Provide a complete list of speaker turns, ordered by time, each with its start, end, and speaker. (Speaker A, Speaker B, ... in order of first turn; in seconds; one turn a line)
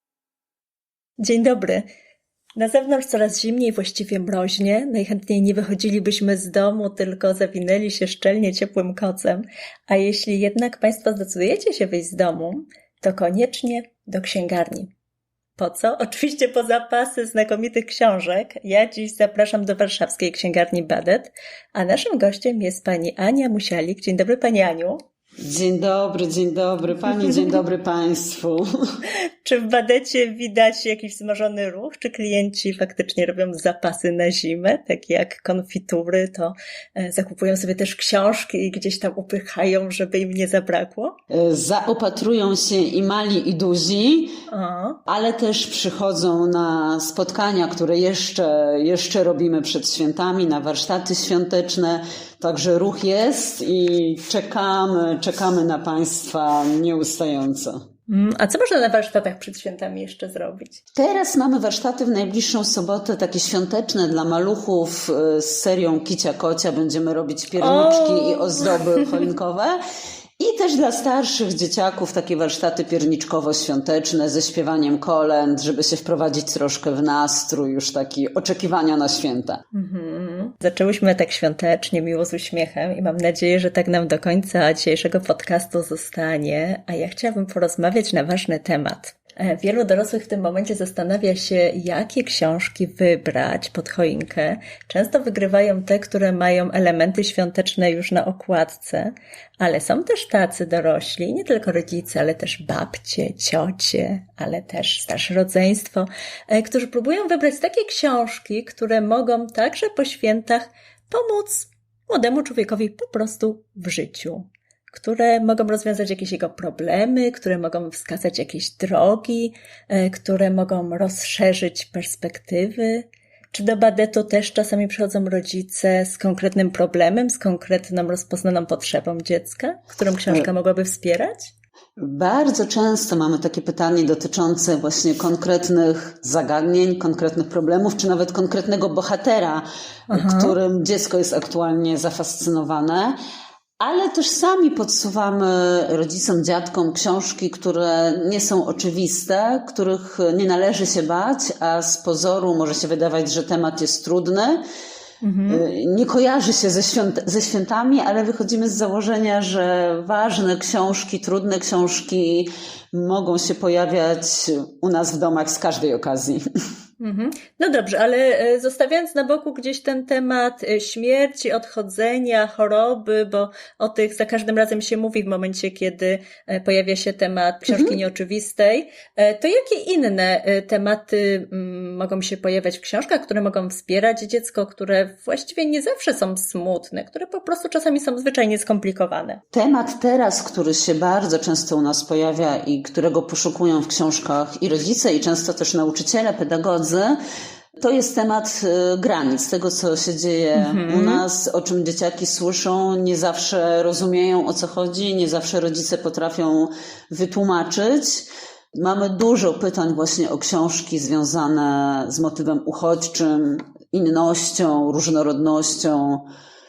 Speaker A: 1.2-1.9
Speaker A: 2.6-14.9
Speaker A: 15.6-25.0
Speaker B: 25.4-28.7
Speaker A: 29.1-41.1
Speaker B: 41.3-44.4
Speaker A: 44.5-45.0
Speaker B: 45.1-57.8
Speaker A: 58.1-60.8
Speaker B: 61.0-69.8
Speaker A: 67.6-69.2
Speaker B: 70.4-79.6
Speaker A: 79.7-131.5
Speaker B: 132.0-143.2
Speaker A: 140.1-140.6
Speaker B: 143.8-154.6
Speaker A: 155.2-155.6
Speaker B: 155.5-166.4
Speaker A: 167.0-189.4
Speaker B: 177.7-177.9
Speaker B: 189.5-197.2
Speaker B: 197.8-216.3
Speaker A: 200.6-201.2